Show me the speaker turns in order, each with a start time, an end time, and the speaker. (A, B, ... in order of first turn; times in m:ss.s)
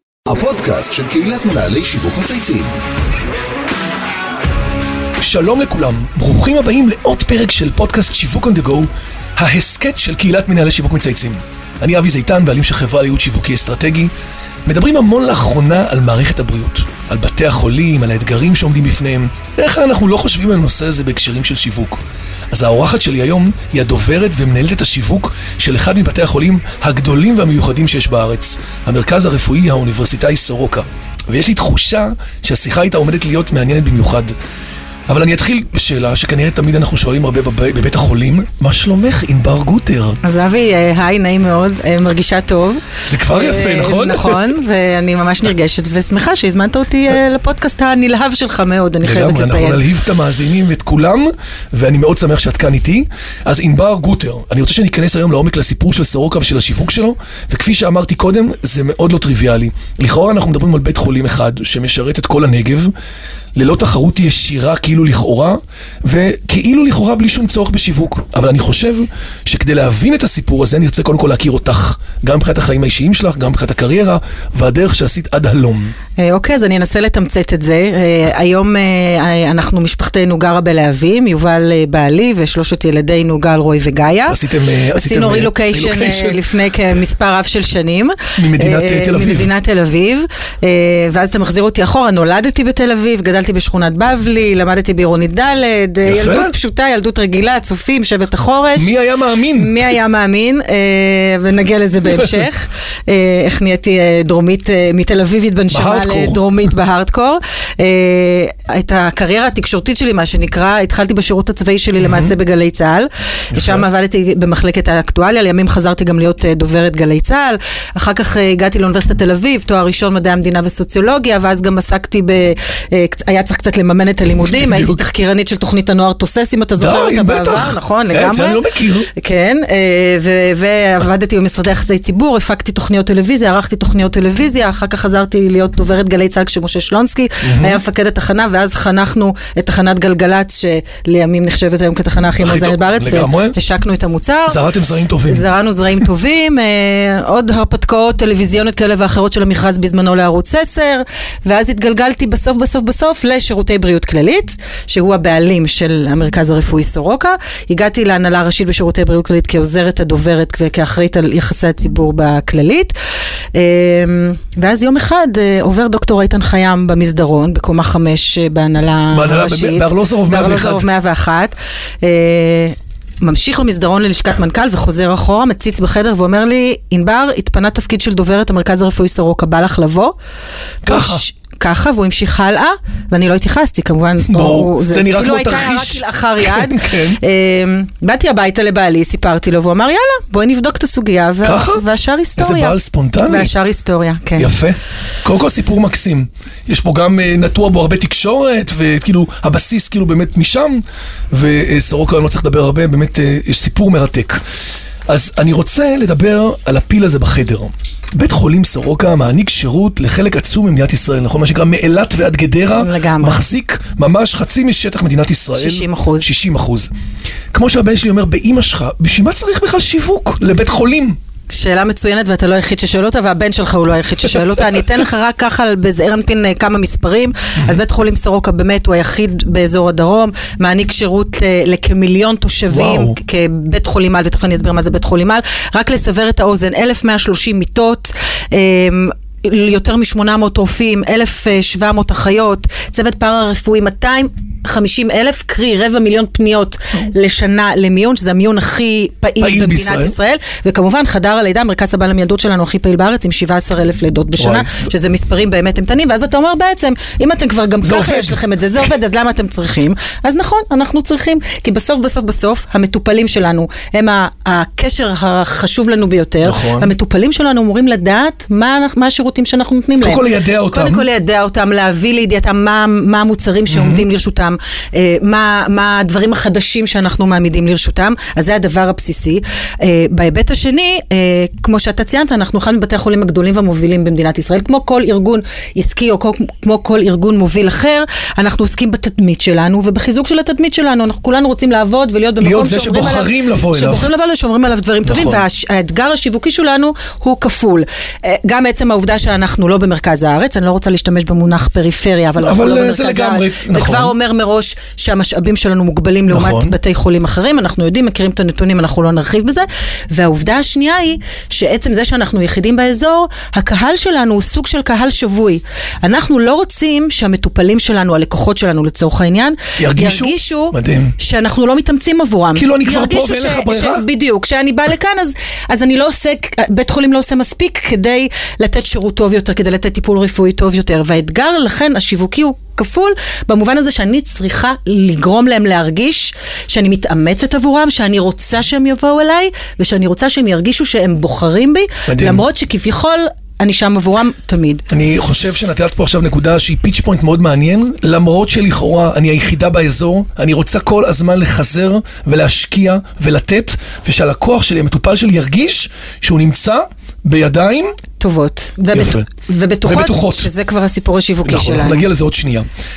0:00.3-0:02.7 A
0:05.2-0:14.1 B
0:14.7-0:34.4 B
0:35.1-0:40.2 B
0:40.2-0:49.8 C
0:43.1-0:44.5 B
0:49.0-1:02.9 B
1:03.6-1:16.0 B
1:16.2-1:24.4 C
1:24.3-1:26.4 B
1:24.9-1:39.0 C
1:28.4-1:29.5 B
1:36.0-1:36.5 B
1:38.8-1:39.8 B
1:39.5-2:24.7 C
1:45.7-1:46.6 B
1:52.0-1:52.3 B
1:53.5-1:53.9 B
2:04.4-2:05.0 B
2:06.8-2:09.1 B
2:17.4-2:17.8 B
2:22.4-2:23.6 B
2:24.5-2:25.5 B
2:25.2-2:42.9 C
2:43.5-3:00.2 C
2:49.1-2:50.9 B
3:00.8-3:14.5 C
3:00.9-3:01.2 B
3:04.3-3:07.2 B
3:11.4-3:11.8 B
3:12.4-3:13.5 B
3:14.4-3:24.4 B
3:25.1-3:36.9 B
3:32.8-3:33.4 C
3:35.5-3:36.3 C
3:37.5-3:41.2 B
3:41.5-5:44.8 C
3:52.7-3:53.2 B
4:09.4-4:10.2 B
4:14.4-4:14.8 B
4:17.8-4:18.4 B
4:26.4-4:26.9 B
4:30.0-4:31.1 B
4:33.7-4:34.1 B
4:52.4-4:54.1 B
4:55.0-4:55.4 B
5:02.4-5:04.1 B
5:06.3-5:06.8 B
5:19.8-5:21.2 B
5:22.6-5:24.1 B
5:42.1-5:42.4 B
5:44.9-5:57.9 B
5:58.2-6:02.1 C
5:58.9-5:59.3 B
5:59.8-6:00.5 B
6:01.4-6:02.7 B